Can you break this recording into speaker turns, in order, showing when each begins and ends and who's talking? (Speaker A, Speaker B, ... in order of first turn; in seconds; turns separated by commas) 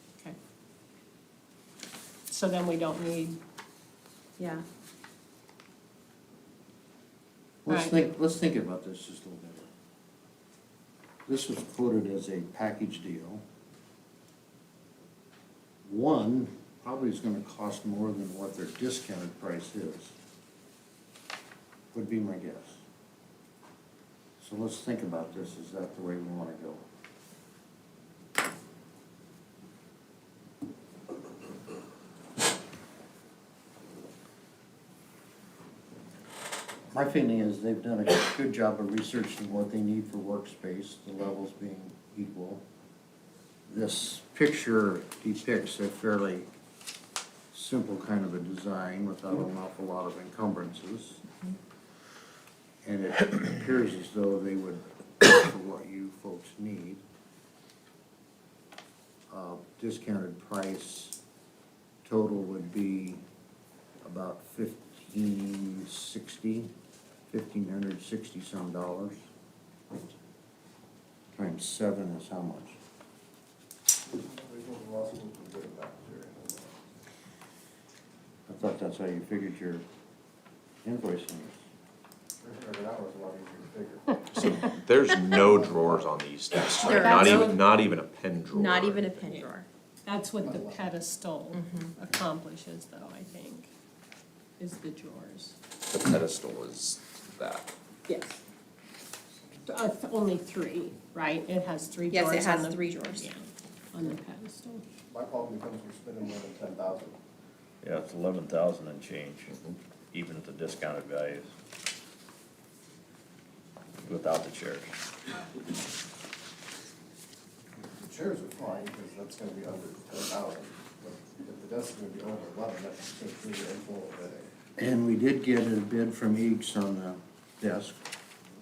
Speaker A: 2.3-3.4, Speaker B: 4.4-4.7, Speaker C: 7.7-9.7, Speaker A: 7.7-8.0, Speaker C: 11.3-13.4, Speaker C: 15.9-20.1, Speaker C: 21.9-22.8, Speaker C: 24.4-26.8, Speaker C: 36.9-42.6, Speaker C: 43.7-46.5, Speaker C: 47.5-51.3, Speaker C: 52.8-57.0, Speaker C: 59.3-61.2, Speaker C: 62.0-63.2, Speaker C: 64.0-66.7, Speaker C: 67.3-69.2, Speaker C: 71.3-72.8, Speaker D: 74.1-76.8, Speaker C: 78.5-79.8, Speaker C: 80.8-81.6, Speaker D: 82.4-84.2, Speaker E: 84.3-89.3, Speaker A: 84.3-84.6, Speaker D: 85.4-86.1, Speaker B: 86.7-87.6, Speaker A: 86.9-87.6, Speaker B: 88.5-89.7, Speaker A: 90.1-93.7, Speaker D: 90.4-90.8, Speaker B: 91.5-91.9, Speaker A: 94.6-95.5, Speaker E: 95.9-97.7, Speaker A: 98.1-98.4, Speaker A: 99.7-104.8, Speaker B: 102.1-103.3, Speaker D: 105.1-107.2, Speaker F: 107.8-109.5, Speaker E: 109.5-109.8, Speaker F: 110.1-111.5, Speaker F: 114.1-114.9, Speaker D: 117.9-124.5, Speaker C: 124.8-128.0